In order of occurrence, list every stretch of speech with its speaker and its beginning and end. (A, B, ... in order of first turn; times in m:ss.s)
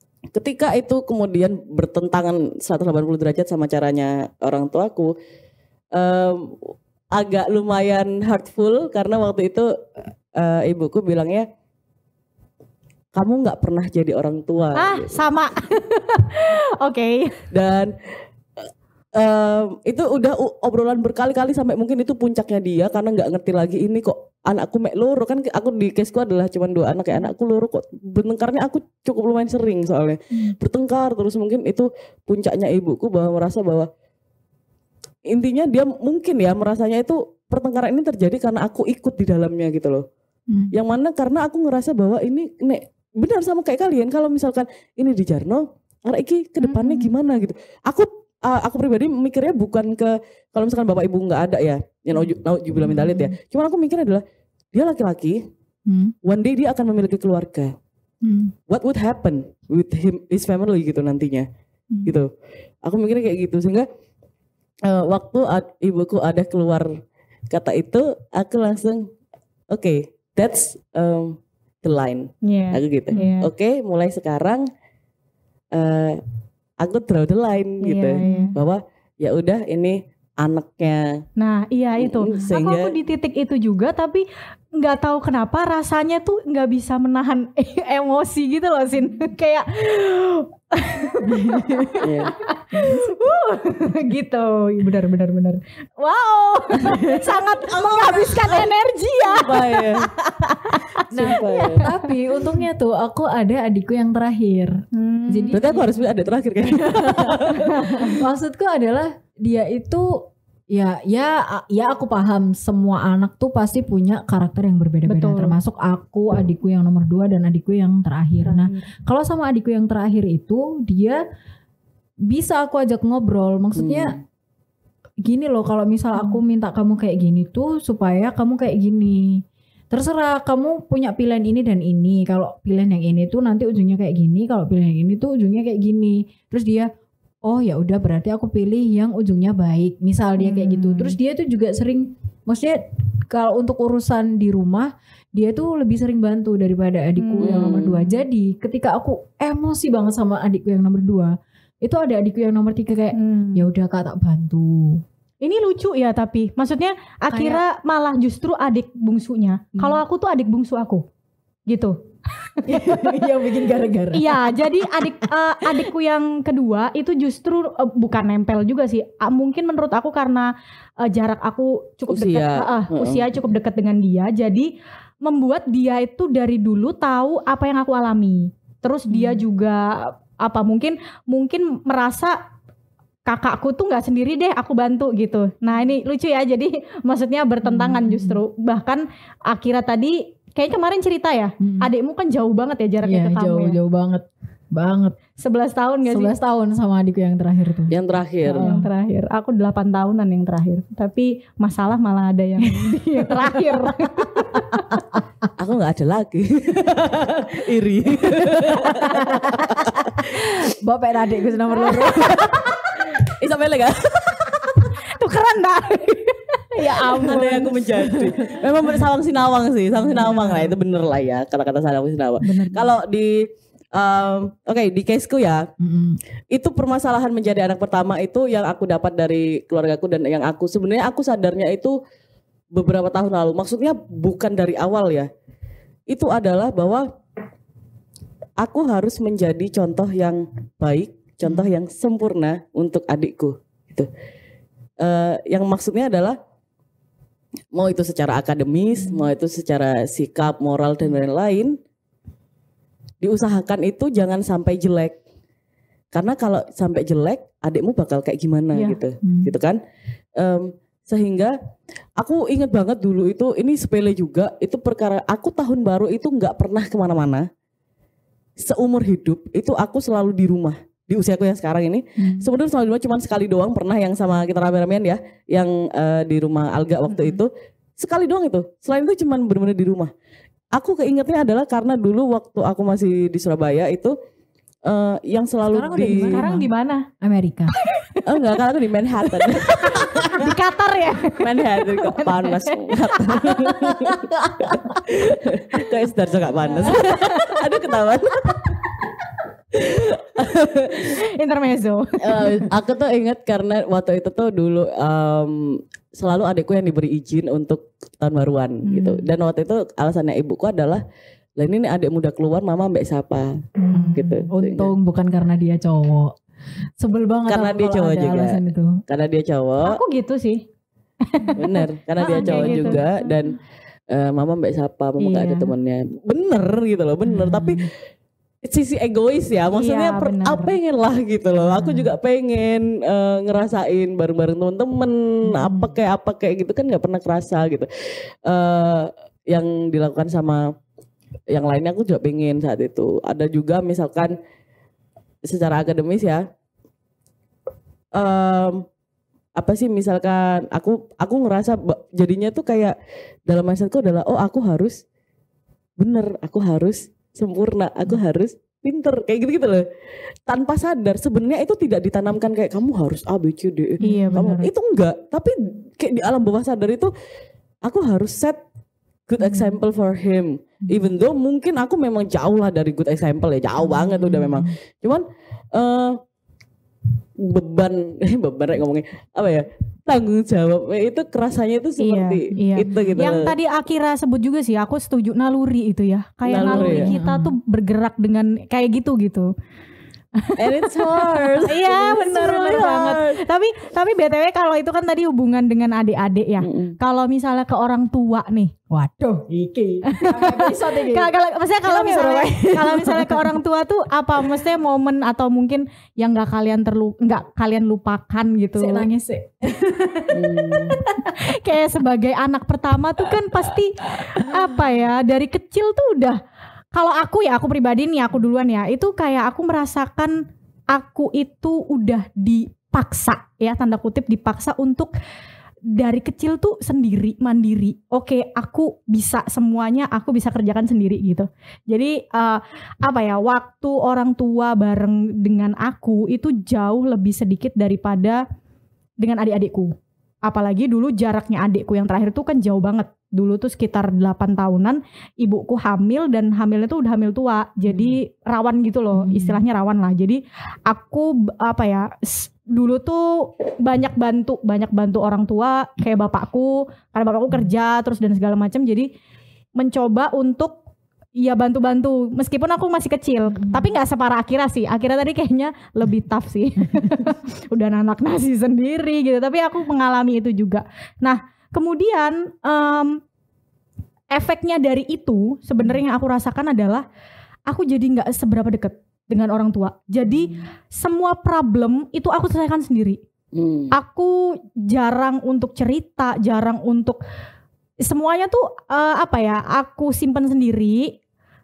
0:00.3-0:05.1 A
0:06.0-0:06.5 A
0:07.2-0:09.7 A
0:10.4-0:11.5 A
0:13.2-0:15.2 A
0:14.8-0:17.4 B
0:17.5-0:17.9 A
0:19.2-0:33.9 A
0:35.3-0:40.0 A
0:40.7-0:55.4 A
0:46.6-0:47.1 C
0:52.2-0:53.4 C
0:55.9-0:56.1 C
0:56.2-0:57.7 A
0:58.2-0:58.5 C
0:58.7-1:01.5 A
1:02.8-1:03.9 A
1:04.9-1:06.9 A
1:07.5-1:09.1 A
1:09.7-1:14.7 A
1:12.4-1:13.5 B
1:15.7-1:16.2 A
1:16.8-1:21.2 A
1:17.8-1:18.5 B
1:18.2-1:18.6 C
1:21.4-1:24.2 B
1:22.0-1:22.9 A
1:24.8-1:42.1 B
1:31.1-1:32.1 C
1:32.0-1:32.4 A
1:32.7-1:33.2 C
1:35.0-1:35.5 C
1:36.8-1:38.7 C
1:38.1-1:38.6 A
1:39.2-1:40.1 A
1:41.0-1:41.9 A
1:41.1-1:44.8 C
1:44.9-1:45.6 B
1:45.3-2:01.2 C
1:45.5-1:48.2 A
1:47.5-1:48.2 B
1:55.1-1:55.6 B
1:58.4-1:58.9 B
2:02.3-2:04.2 C
2:03.8-2:04.2 A
2:05.2-2:16.9 C
2:17.5-2:35.0 C
2:20.4-2:21.2 B
2:27.2-2:28.0 B
2:27.4-2:28.1 A
2:33.1-2:33.7 B
2:35.4-2:41.0 B
2:37.3-2:37.6 C
2:39.8-2:40.0 C
2:41.7-2:43.2 B
2:42.6-2:45.8 C
2:44.1-2:50.5 B
2:51.0-2:54.7 B
2:52.1-2:53.3 A
2:55.2-3:02.4 B
2:59.1-2:59.4 C
3:03.3-3:13.8 B
3:07.6-3:08.4 C
3:11.6-3:11.9 C
3:13.0-3:15.2 C
3:15.4-3:16.3 B
3:16.1-3:18.9 C
3:17.9-3:18.7 A
3:18.6-3:24.6 B
3:22.6-3:25.5 C
3:25.6-3:30.6 A
3:28.3-3:33.2 C
3:31.9-3:32.5 A
3:33.2-3:34.9 A
3:35.0-3:37.7 B
3:36.8-3:39.0 C
3:37.0-3:45.7 A
3:40.0-3:40.8 C
3:42.4-3:43.0 C
3:45.8-3:46.2 C
3:46.5-3:52.0 A
3:52.7-3:55.3 A
3:56.1-3:57.1 A
3:58.6-4:04.1 A
4:01.4-4:01.7 C
4:05.0-4:06.4 A
4:07.7-4:11.8 A
4:13.2-4:15.2 A
4:16.1-4:19.8 A
4:19.2-4:19.5 C
4:20.4-4:21.5 A
4:22.2-4:27.5 A
4:28.6-4:40.1 A
4:32.2-4:32.5 C
4:37.1-4:37.4 B
4:40.8-4:44.2 A
4:44.9-4:46.5 A
4:45.7-4:46.7 C
4:46.1-4:47.0 B
4:47.2-4:47.7 C
4:47.8-4:48.2 B
4:48.3-4:50.5 A
4:49.5-4:53.6 B
4:51.4-4:58.9 A
4:54.5-4:54.9 C
4:56.7-4:57.0 C
4:56.7-4:57.6 B
4:59.7-5:01.2 A
5:01.2-5:02.7 B
5:02.2-5:11.0 A
5:08.8-5:09.3 B
5:11.6-5:13.6 A
5:13.8-5:14.4 B
5:13.9-5:16.4 C
5:14.2-5:14.9 A
5:17.0-5:19.0 C
5:17.5-5:20.0 A
5:19.9-5:20.6 B
5:21.2-5:23.3 B
5:21.6-5:23.6 A
5:22.3-5:23.0 C
5:24.1-5:27.9 A
5:25.2-5:25.7 B
5:27.2-5:27.9 C
5:28.6-5:37.9 A
5:29.7-5:30.8 B
5:31.6-5:32.1 C
5:35.5-5:36.0 C
5:38.5-5:40.7 A
5:41.5-5:44.3 A
5:45.5-5:46.4 A
5:48.2-5:48.9 A
5:49.6-5:53.0 A
5:53.5-5:55.0 A
5:56.0-5:59.8 A
6:00.5-6:07.1 A
6:04.0-6:04.7 B
6:04.0-6:04.5 C
6:07.9-6:08.6 A
6:09.3-6:16.2 A
6:13.8-6:14.7 C
6:17.4-6:23.6 A
6:22.0-6:29.5 B
6:22.6-6:23.4 C
6:26.5-6:27.1 A
6:26.6-6:27.6 C
6:30.4-6:38.7 B
6:30.6-6:33.4 A
6:36.6-6:37.0 A
6:38.9-6:41.3 C
6:40.1-6:49.1 B
6:41.9-6:43.5 C
6:48.8-6:51.5 C
6:50.3-6:51.0 A
6:51.0-6:56.4 B
6:54.3-6:54.8 C
6:56.9-7:00.4 B
7:00.9-7:05.1 B
7:05.9-7:18.4 B
7:19.2-7:39.1 B
7:27.9-7:28.2 C
7:29.1-7:29.6 C
7:39.8-7:40.8 B
7:41.4-7:53.2 B
7:43.5-7:43.9 C
7:47.0-7:47.3 C
7:54.3-7:57.0 B
7:57.7-8:03.2 B
8:03.5-8:03.9 A
8:03.9-8:07.2 B
8:08.1-8:11.1 B